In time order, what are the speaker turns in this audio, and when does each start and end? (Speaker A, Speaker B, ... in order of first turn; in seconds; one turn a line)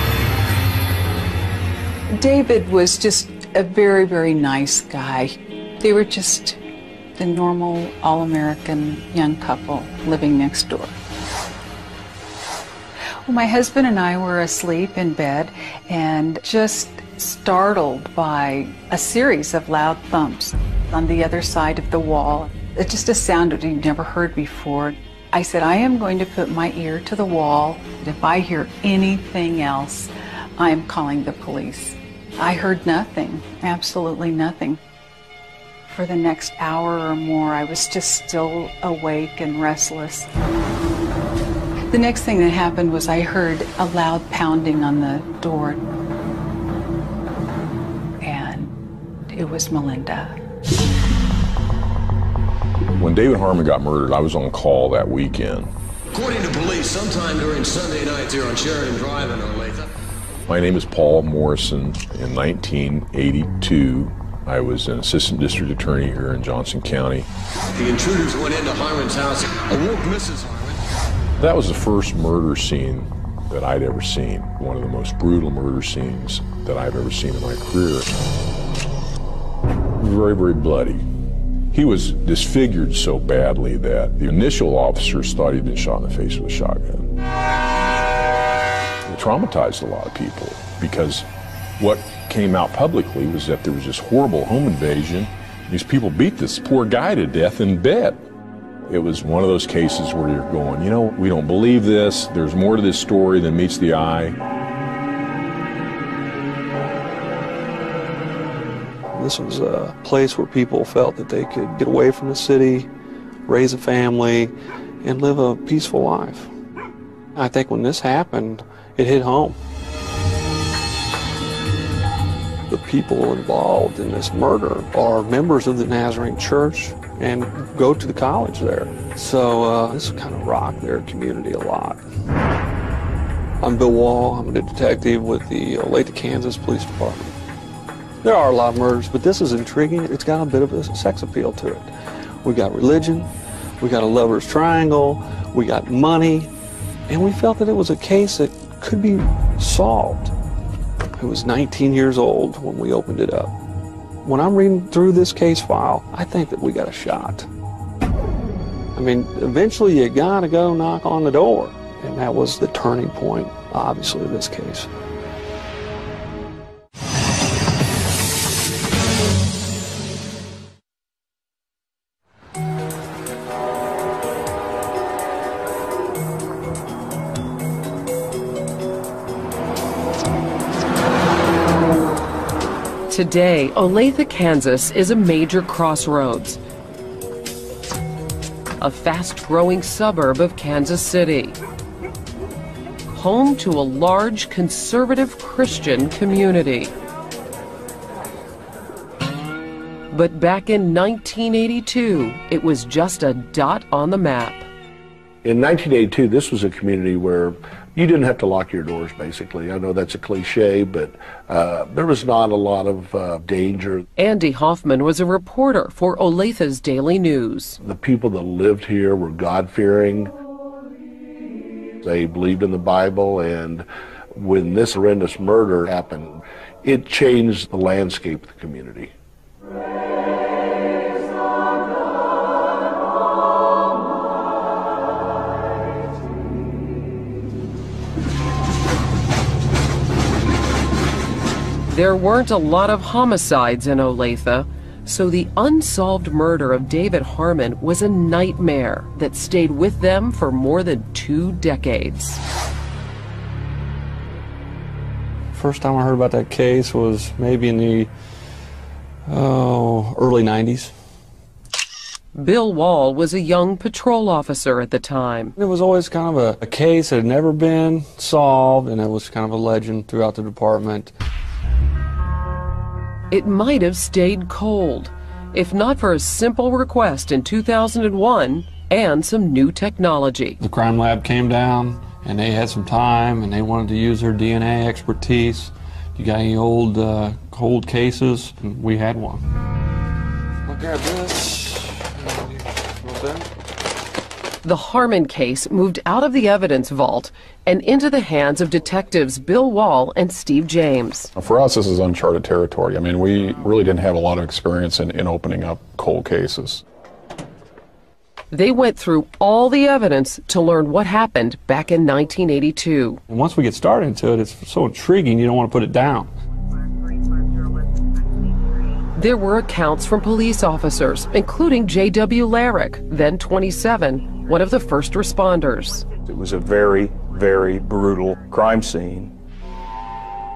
Speaker A: 2.1-6.6
Speaker A: 7.2-10.9
Speaker A: 13.2-34.8
Speaker A: 35.9-40.3
Speaker A: 41.9-45.8
Speaker A: 48.2-48.7
Speaker A: 49.3-50.4
Speaker B: 53.0-55.7
Speaker C: 56.1-59.9
Speaker B: 60.5-67.3
Speaker C: 67.8-70.8
Speaker B: 71.4-78.1
Speaker B: 80.0-81.0
Speaker B: 81.7-87.1
Speaker B: 89.1-91.3
Speaker B: 91.8-98.2
Speaker B: 98.9-104.4
Speaker D: 109.2-112.9
Speaker D: 113.5-116.5
Speaker D: 117.4-119.6
Speaker D: 122.7-132.0
Speaker D: 133.6-137.3
Speaker D: 138.2-141.9
Speaker D: 142.4-143.3
Speaker D: 143.8-146.5
Speaker D: 147.1-150.3
Speaker D: 151.2-153.5
Speaker D: 154.2-157.5
Speaker D: 158.9-164.9
Speaker E: 183.1-186.6
Speaker E: 188.8-191.6
Speaker E: 193.1-196.9
Speaker E: 200.1-204.7
Speaker F: 205.4-214.1
Speaker E: 214.2-217.8
Speaker F: 217.8-220.3
Speaker F: 222.0-229.1
Speaker E: 241.9-252.4
Speaker D: 255.5-258.1
Speaker D: 259.3-260.9
Speaker E: 262.4-265.5
Speaker D: 265.6-271.1
Speaker E: 273.3-280.6
Speaker D: 280.6-289.4
Speaker D: 290.7-293.5
Speaker E: 294.6-301.3
Speaker G: 301.4-306.8
Speaker E: 308.5-313.2
Speaker D: 313.3-316.3
Speaker E: 319.2-326.1
Speaker H: 326.3-329.3